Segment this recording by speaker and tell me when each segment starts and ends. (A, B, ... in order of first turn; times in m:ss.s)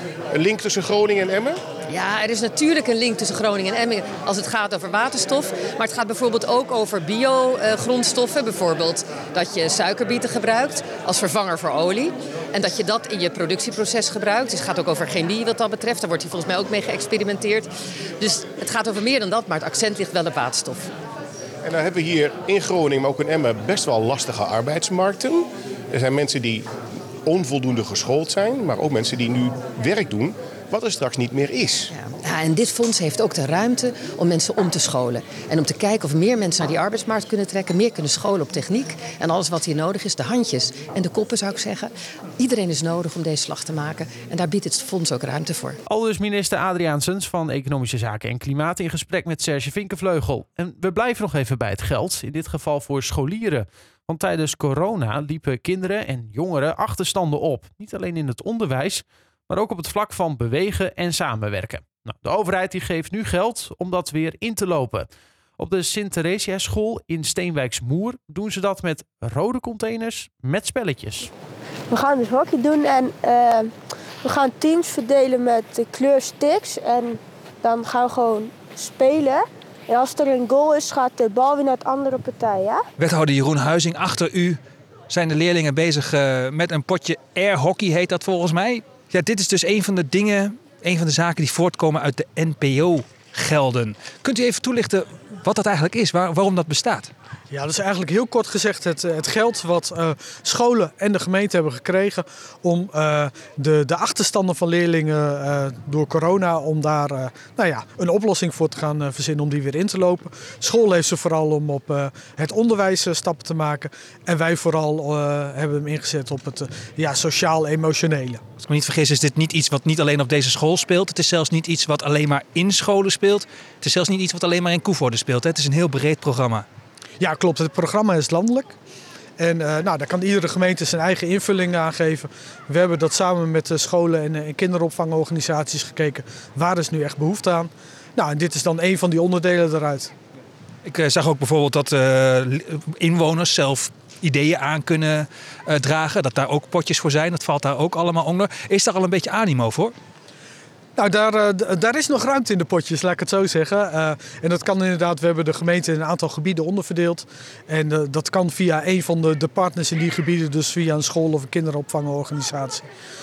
0:00.3-0:01.6 A
0:01.9-0:20.9 B
0:21.6-0:26.7 A
0:27.2-0:31.9 A
0:31.9-0:45.8 B
0:45.9-1:11.3 C
1:11.9-1:13.7 D
1:14.2-1:22.8 D
1:23.0-1:37.1 E
1:37.5-1:58.4 F
1:58.6-2:06.6 E
2:07.2-2:08.8 F
2:09.4-2:20.1 F
2:20.9-2:29.9 E
2:31.0-2:42.8 F